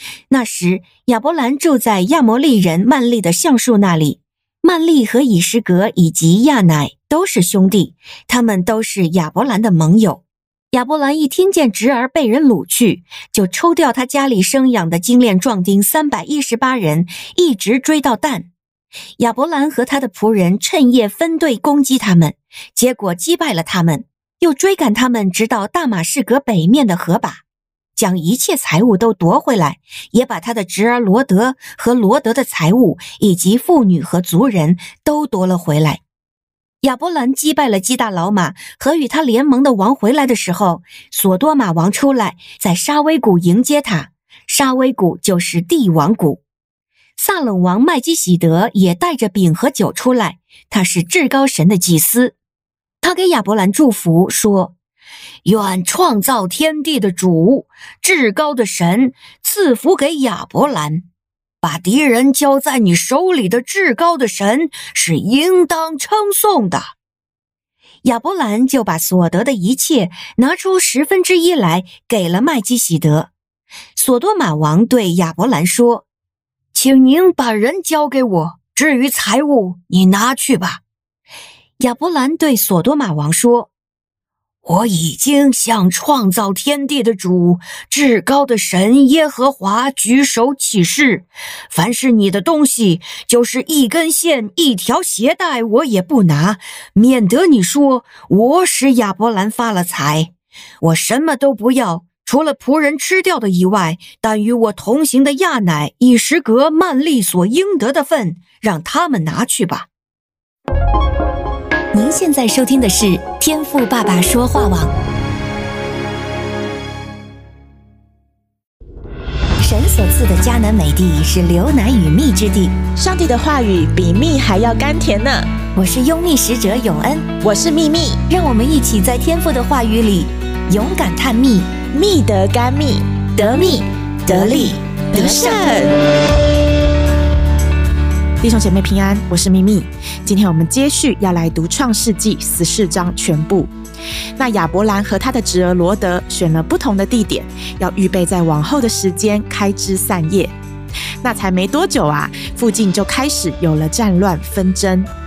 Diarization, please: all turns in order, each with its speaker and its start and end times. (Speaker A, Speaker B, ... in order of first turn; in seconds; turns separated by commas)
Speaker A: 0.3-18.5, Speaker A: 19.2-27.4, Speaker A: 28.0-36.0, Speaker A: 36.8-46.4, Speaker A: 47.2-52.4, Speaker A: 53.0-54.7, Speaker A: 55.5-61.0, Speaker A: 61.6-66.9, Speaker A: 68.0-73.3, Speaker A: 74.0-76.0, Speaker A: 76.7-80.8, Speaker A: 81.8-83.7, Speaker A: 84.7-109.9, Speaker A: 111.9-114.9, Speaker A: 119.6-122.8, Speaker B: 123.0-125.5, Speaker A: 125.8-127.3, Speaker B: 127.4-128.2, Speaker A: 128.3-131.7, Speaker B: 131.9-136.0, Speaker A: 133.4-135.9, Speaker B: 138.4-143.7, Speaker B: 144.4-150.5, Speaker B: 151.2-155.1